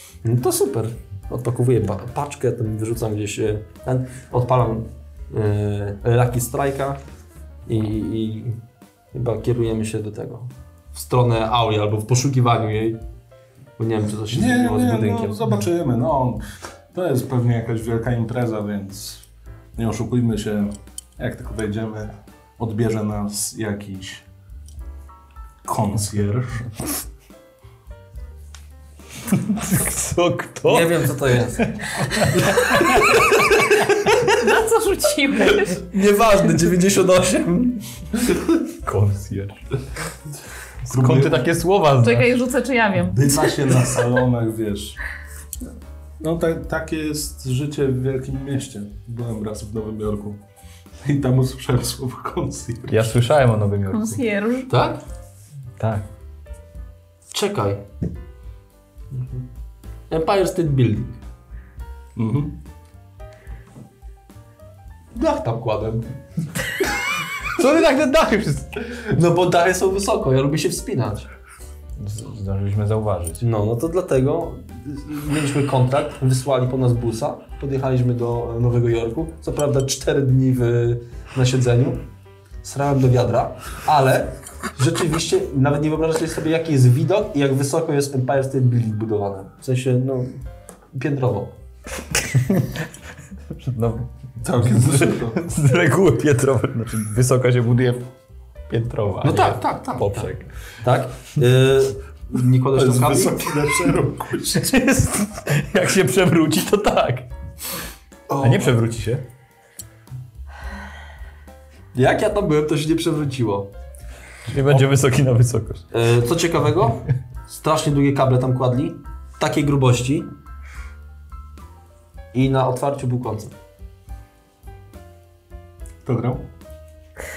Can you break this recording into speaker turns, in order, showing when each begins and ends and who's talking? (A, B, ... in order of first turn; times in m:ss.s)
0:00.2-0:07.0 A
0:07.6-0:08.6 A
0:09.1-0:13.0 A
0:13.8-0:15.4 A
0:14.3-0:19.2 B
0:19.8-0:24.2 B
0:25.6-0:26.8 B
0:29.3-0:31.0 C
0:30.6-0:34.3 A
0:31.6-0:33.3 C
0:34.3-0:35.9 D
0:35.5-0:38.4 A
0:38.8-0:39.6 C
0:40.9-0:42.4 C
0:40.9-0:41.5 B
0:42.0-0:43.7 D
0:43.1-0:45.0 B
0:46.2-0:50.4 B
0:51.0-0:53.2 B
0:52.9-0:54.2 C
0:53.9-0:54.7 D
0:54.7-0:55.0 A
0:55.8-0:56.0 C
0:57.3-0:57.8 A
0:59.1-0:59.4 A
1:00.1-1:01.2 A
1:02.2-1:02.5 B
1:05.1-1:06.2 A
1:07.5-1:08.8 C
1:08.9-1:11.3 A
1:12.0-1:13.4 C
1:13.4-1:22.0 A
1:22.6-1:30.4 A
1:30.9-1:31.5 A
1:32.2-1:32.8 C
1:33.5-1:38.1 C
1:34.4-1:35.4 B
1:38.7-1:40.5 C
1:39.2-1:40.3 A
1:39.4-1:40.0 B
1:40.8-1:43.6 A
1:42.7-1:44.7 B
1:44.5-1:47.3 C
1:48.3-1:48.8 B
1:48.4-1:49.2 C
1:51.9-1:53.7 A
1:54.5-1:55.8 C
1:55.9-2:00.3 A
2:02.3-2:03.5 A
2:06.0-2:06.4 B